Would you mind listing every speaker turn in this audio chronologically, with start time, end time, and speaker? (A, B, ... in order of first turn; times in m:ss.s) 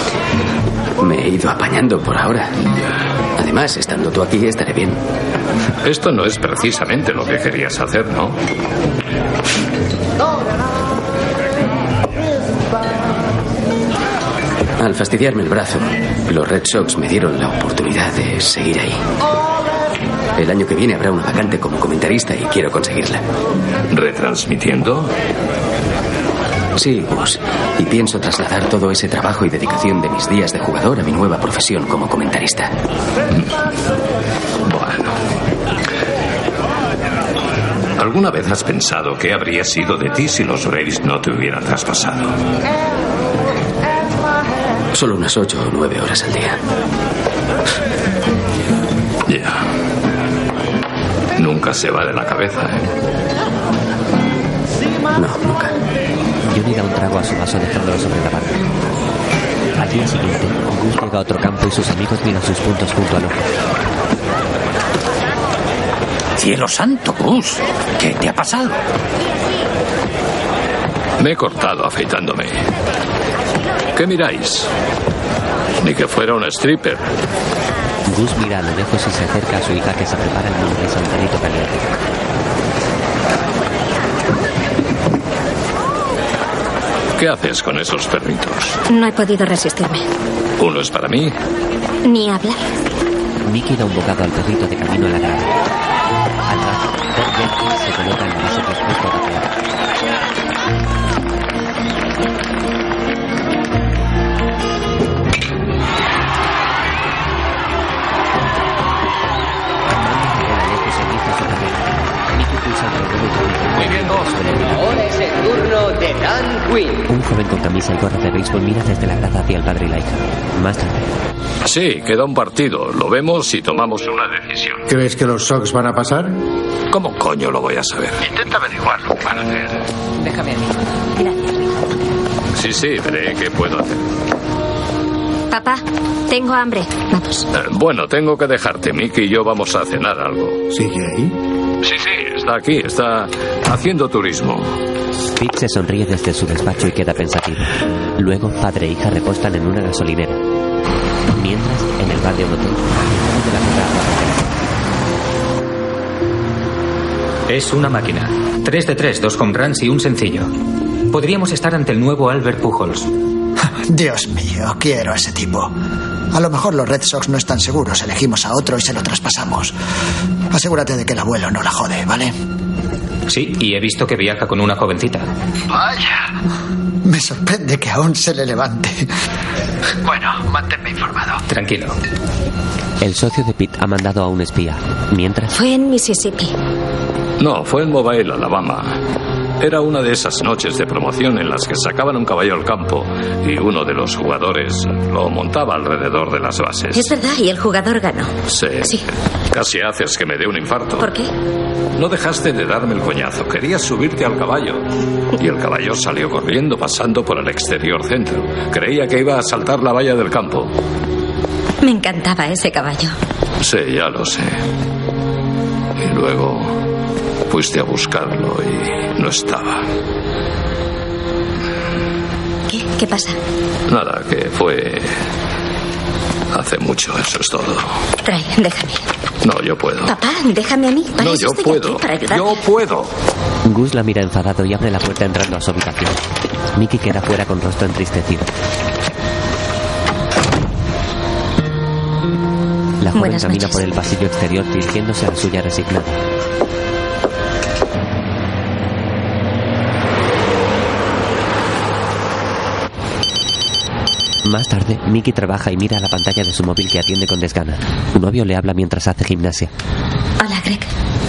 0:01.0-0:02.5 A
0:03.4-0:05.0 A
0:05.8-0:08.4 B
0:14.8-0:19.0 A
0:20.4-0:23.2 A
0:23.9-0:25.1 B
0:26.8-0:32.7 A
0:34.6-0:35.2 B
0:38.0-0:42.4 B
0:44.9-0:46.6 A
0:49.3-0:49.6 B
0:51.4-0:52.9 B
0:55.1-0:55.7 A
0:56.5-0:58.6 C
0:59.8-1:03.5 C
1:06.4-1:08.8 D
1:11.2-1:12.6 B
1:13.9-1:14.7 B
1:15.8-1:17.0 B
1:18.1-1:21.9 C
1:27.2-1:28.8 B
1:28.9-1:30.0 E
1:30.6-1:31.3 B
1:32.0-1:32.6 E
1:33.5-1:35.6 C
1:36.5-1:39.5 C
1:49.9-1:54.8 C
1:54.8-1:57.0 F
1:57.1-2:01.1 C
2:01.6-2:04.8 B
2:04.9-2:06.4 G
2:06.9-2:08.2 B
2:12.6-2:14.0 B
2:15.5-2:17.5 E
2:17.5-2:20.6 B
2:20.7-2:21.3 G
2:21.8-2:24.8 B
2:25.4-2:30.4 C
2:31.3-2:34.5 C
2:37.5-2:40.5 H
2:41.1-2:43.1 H
2:43.9-2:45.7 I
2:46.3-2:49.7 I
2:50.5-2:52.4 I
2:53.3-2:55.3 H
2:57.0-2:59.1 I
3:01.5-3:02.0 H
3:03.0-3:05.6 C
3:05.5-3:06.5 E
3:07.4-3:09.0 B
3:09.6-3:17.1 B
3:16.9-3:18.3 E
3:18.5-3:21.1 B
3:21.0-3:21.3 E
3:22.0-3:24.8 B
3:25.4-3:30.7 B
3:31.8-3:33.2 E
3:33.6-3:34.6 B
3:36.0-3:36.8 B
3:37.5-3:39.8 B
3:42.7-3:43.4 E
3:43.9-3:45.2 B
3:46.5-3:47.9 B
3:48.2-3:49.0 E
3:49.4-3:50.1 B
3:50.1-3:52.6 E
3:51.2-3:53.1 B
3:53.6-3:56.2 C
3:56.8-3:58.5 C
4:03.0-4:06.2 C
4:03.2-4:03.8 E
4:14.4-4:19.7 C
4:20.4-4:20.9 E